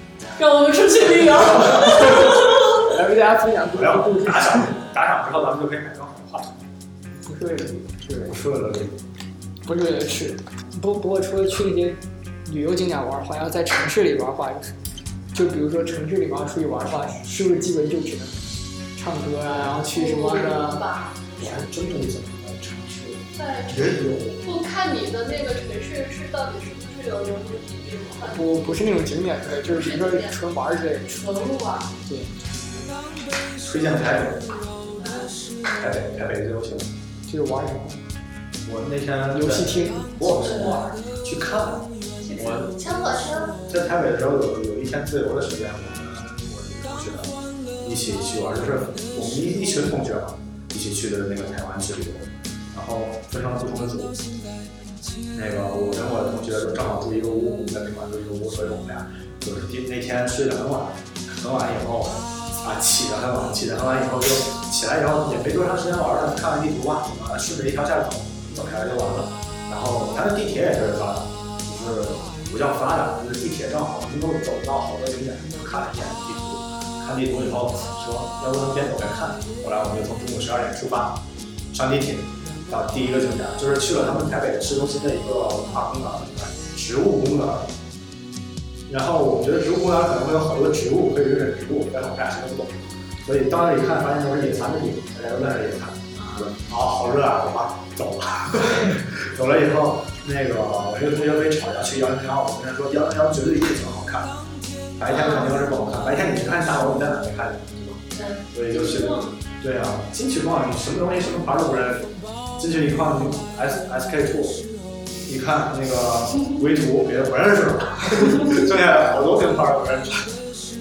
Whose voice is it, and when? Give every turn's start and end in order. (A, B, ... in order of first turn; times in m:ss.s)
0:00.4-0:02.9 A
0:01.7-0:04.7 B
0:03.7-0:06.5 C
0:07.2-0:08.3 B
0:08.1-0:09.0 C
0:09.6-0:14.8 B
0:15.3-0:18.4 B
0:19.0-0:20.8 B
0:19.9-0:21.5 A
0:21.4-0:24.4 C
0:23.4-0:28.5 A
0:28.2-0:31.3 B
0:29.6-0:30.4 A
0:31.1-0:31.9 A
0:32.1-0:32.4 B
0:33.6-0:34.6 C
0:34.8-0:35.4 A
0:35.8-0:36.9 C
0:37.3-0:38.0 B
0:38.6-0:42.7 C
0:39.4-0:40.3 B
0:40.3-0:40.8 A
0:42.2-0:43.6 A
0:43.7-0:54.2 C
0:55.3-1:27.7 C
1:28.9-1:44.4 C
1:36.2-1:36.5 A
1:45.0-1:54.7 C
1:45.1-1:45.5 A
1:48.1-1:49.4 A
1:55.3-2:00.4 C